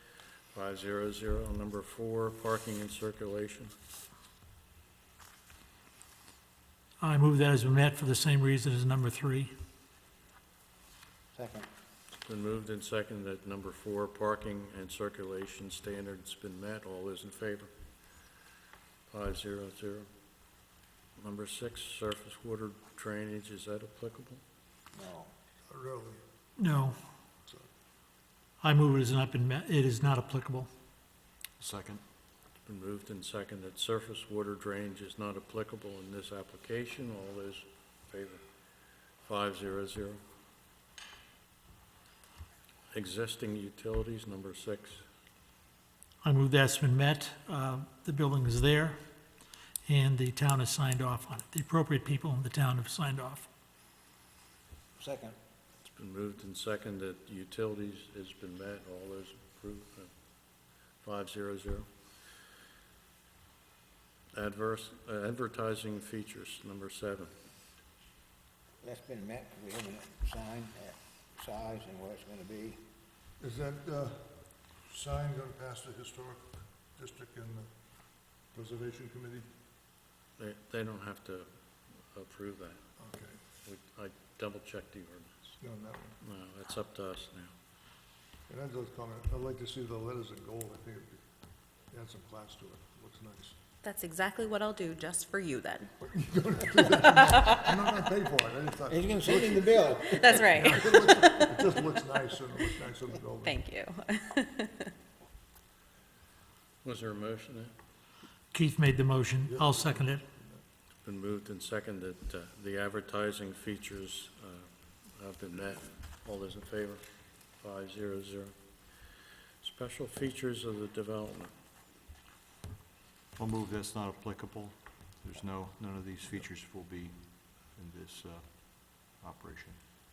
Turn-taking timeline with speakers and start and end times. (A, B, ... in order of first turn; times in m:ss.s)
0:00.5-0:03.7 A
0:07.0-0:09.5 B
0:11.3-0:11.7 C
0:12.2-0:17.7 A
0:19.1-0:20.1 A
0:21.2-0:24.4 A
0:24.9-0:25.3 C
0:25.7-0:26.2 D
0:26.6-0:27.0 B
0:28.6-0:30.7 B
0:31.6-0:32.0 E
0:32.6-0:38.4 A
0:39.2-0:40.2 A
0:42.9-0:45.1 A
0:46.2-0:49.0 B
0:49.9-0:53.5 B
0:55.0-0:55.4 C
0:55.8-1:00.1 A
1:01.0-1:01.9 A
1:04.3-1:07.3 A
1:08.8-1:12.8 C
1:13.4-1:17.7 D
1:18.4-1:19.5 D
1:20.4-1:22.8 A
1:23.0-1:23.4 D
1:23.6-1:25.6 A
1:25.6-1:26.2 D
1:26.2-1:27.5 A
1:28.5-1:31.2 D
1:31.9-1:33.6 D
1:33.8-1:35.9 F
1:36.0-1:43.6 D
1:37.2-1:37.6 F
1:38.9-1:40.3 C
1:40.0-1:41.5 F
1:43.4-1:44.9 F
1:46.8-1:47.7 A
1:48.5-1:50.2 B
1:49.4-1:50.6 D
1:51.0-2:01.5 A
2:03.4-2:09.8 E